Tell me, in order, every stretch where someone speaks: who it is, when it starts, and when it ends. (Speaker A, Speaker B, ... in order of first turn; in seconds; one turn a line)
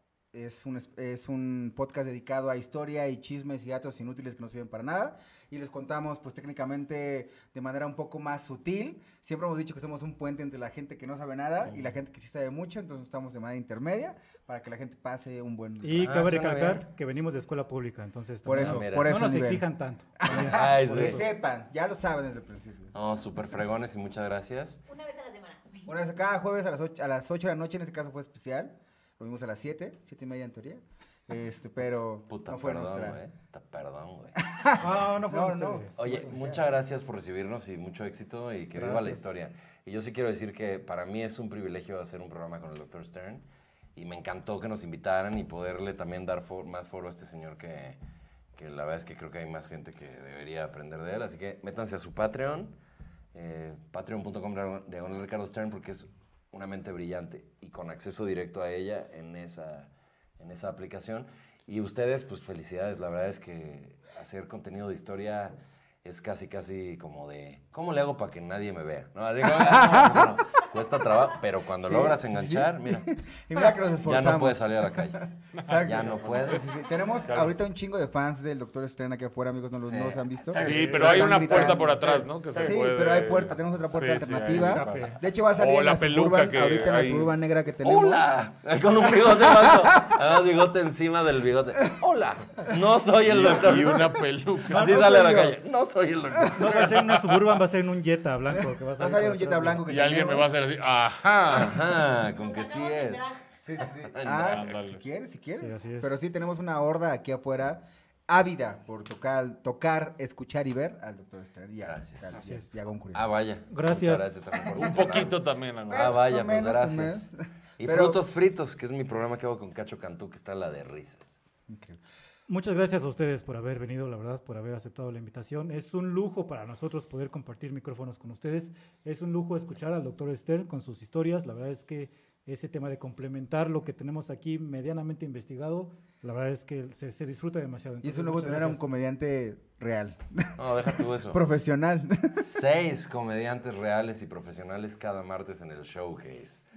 Speaker A: 0.3-16.0
Speaker B: 11.7-11.9
Speaker C: 15.8-21.3
Speaker B: 15.9-16.8
Speaker A: 18.4-19.7
Speaker B: 18.5-19.1
Speaker A: 20.2-22.9
Speaker B: 20.3-21.2
Speaker B: 22.9-24.8
Speaker D: 24.9-25.9
Speaker A: 25.9-33.2
Speaker B: 32.3-34.8
Speaker A: 34.4-36.7
Speaker C: 34.8-36.3
Speaker B: 36.0-48.0
Speaker C: 38.7-39.3
Speaker B: 48.5-52.8
Speaker B: 53.3-76.7
Speaker A: 71.8-88.2
Speaker E: 75.5-77.6
Speaker B: 79.8-80.2
Speaker E: 80.5-87.4
Speaker C: 80.6-82.7
Speaker C: 84.5-85.2
Speaker B: 87.8-94.1
Speaker A: 89.1-90.2
Speaker E: 93.2-95.1
Speaker A: 93.6-93.9
Speaker B: 94.7-97.3
Speaker A: 94.7-95.6
Speaker C: 94.7-95.1
Speaker C: 96.5-99.8
Speaker A: 98.6-100.5
Speaker E: 99.8-102.0
Speaker B: 101.5-103.2
Speaker D: 102.2-103.4
Speaker A: 103.6-113.2
Speaker B: 103.8-104.7
Speaker E: 104.3-105.0
Speaker C: 105.5-106.1
Speaker B: 111.8-112.2
Speaker C: 112.3-112.7
Speaker B: 113.1-121.4
Speaker C: 113.7-114.3
Speaker E: 114.7-116.2
Speaker A: 115.9-118.2
Speaker A: 121.7-122.0
Speaker C: 122.5-138.8
Speaker A: 138.0-140.6
Speaker B: 140.6-141.4
Speaker A: 141.2-142.4
Speaker B: 142.3-146.6